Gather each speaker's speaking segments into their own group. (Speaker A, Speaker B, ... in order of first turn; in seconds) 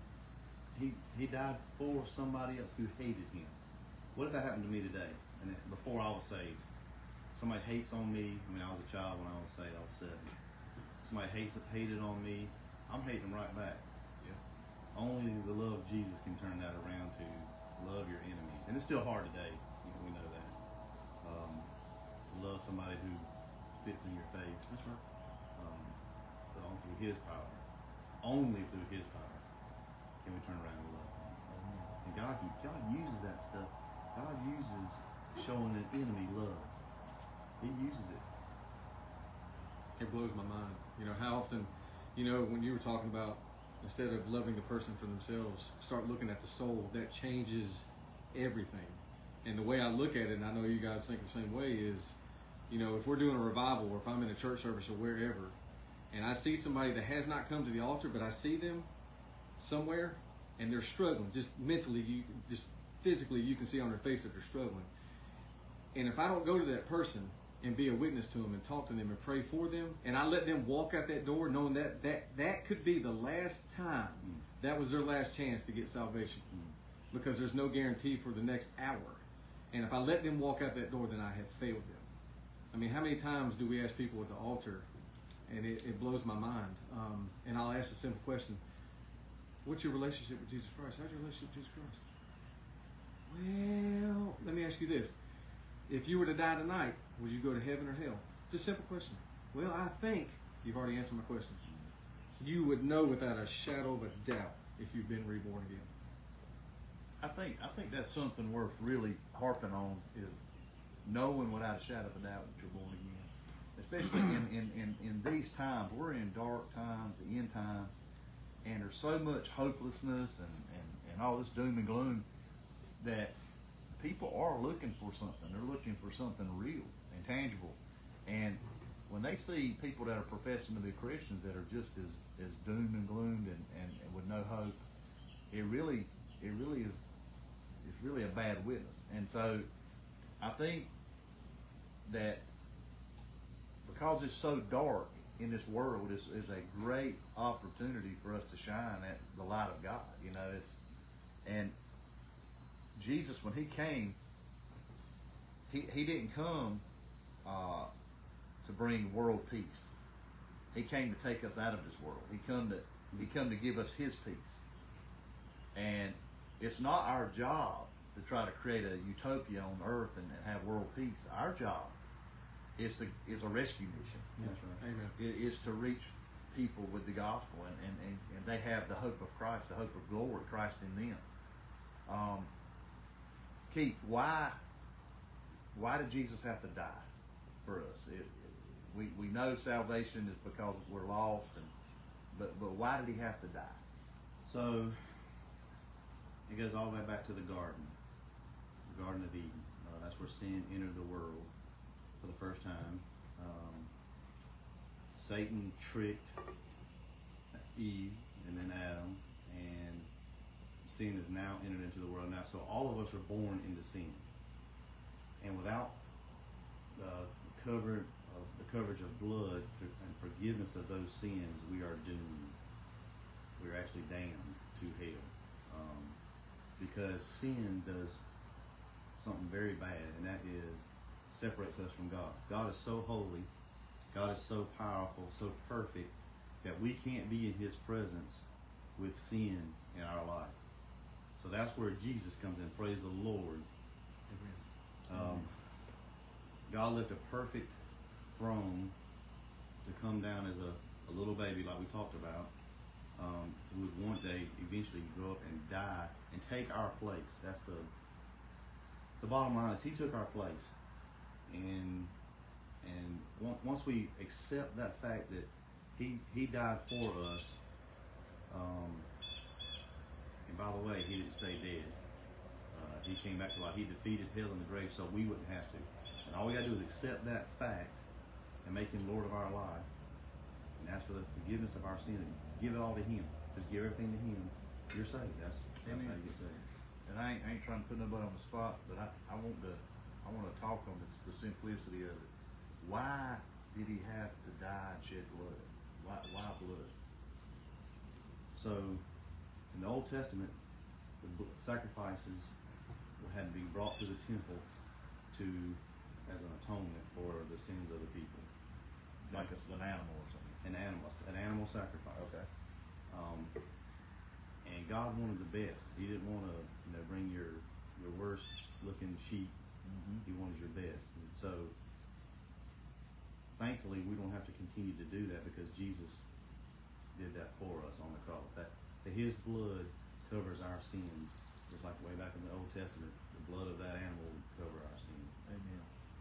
Speaker A: 0.7-3.6, 4.1-6.6, 7.3-10.3, 11.0-13.8, 14.9-20.6, 21.2-21.7, 22.3-23.3, 23.8-24.7, 25.6-26.0, 26.5-27.6, 28.2-29.4, 30.2-31.4, 32.0-36.7, 37.6-38.2, 174.4-174.8, 194.4-195.2, 196.5-198.0, 198.8-201.5, 202.2-203.9, 205.1-206.4, 207.5-210.1, 210.8-214.2, 215.4-216.0, 216.9-222.6, 223.6-226.2, 226.8-228.2, 229.1-233.5, 234.1-238.4, 239.0-240.6, 241.3-243.7, 245.1-245.5, 246.7-247.7, 248.3-248.9, 249.8-252.5, 253.1-257.9, 259.2-260.7, 261.5-262.1, 262.8-267.6, 268.5-269.1, 270.4-272.0, 272.7-278.0, 278.6-279.9, 280.8-286.6, 298.5-299.0, 299.7-300.5, 301.2-302.6, 303.2-304.7, 305.3-308.5, 310.6-312.3, 313.1-313.5, 314.6-319.6, 320.2-321.7, 323.6-326.2, 327.1-335.3
Speaker B: 24.7-25.0, 40.0-52.2, 52.7-55.5, 56.1-58.9, 59.6-64.9, 65.9-76.5, 77.1-82.0, 82.7-84.9, 85.5-88.6, 89.6-92.0, 93.3-95.1, 95.9-101.6, 102.4-105.9, 174.4-175.2, 244.3-244.6
Speaker C: 101.7-101.9, 107.2-110.4, 111.0-117.9, 118.6-122.2, 123.0-123.3, 124.0-134.8, 135.5-137.1, 137.8-139.7, 140.4-140.9, 142.1-142.4, 143.8-150.8, 151.4-151.7, 152.9-154.2, 155.7-156.8, 157.4-157.9, 158.6-160.0, 160.7-164.7, 165.7-171.9, 172.8-174.3, 175.2-181.2, 182.1-182.5, 183.7-184.6, 185.7-187.1, 187.6-191.7, 192.3-193.8, 285.8-286.2, 287.1-292.3, 292.8-296.9, 309.3-310.6, 312.1-312.5, 319.8-320.2, 335.5-335.9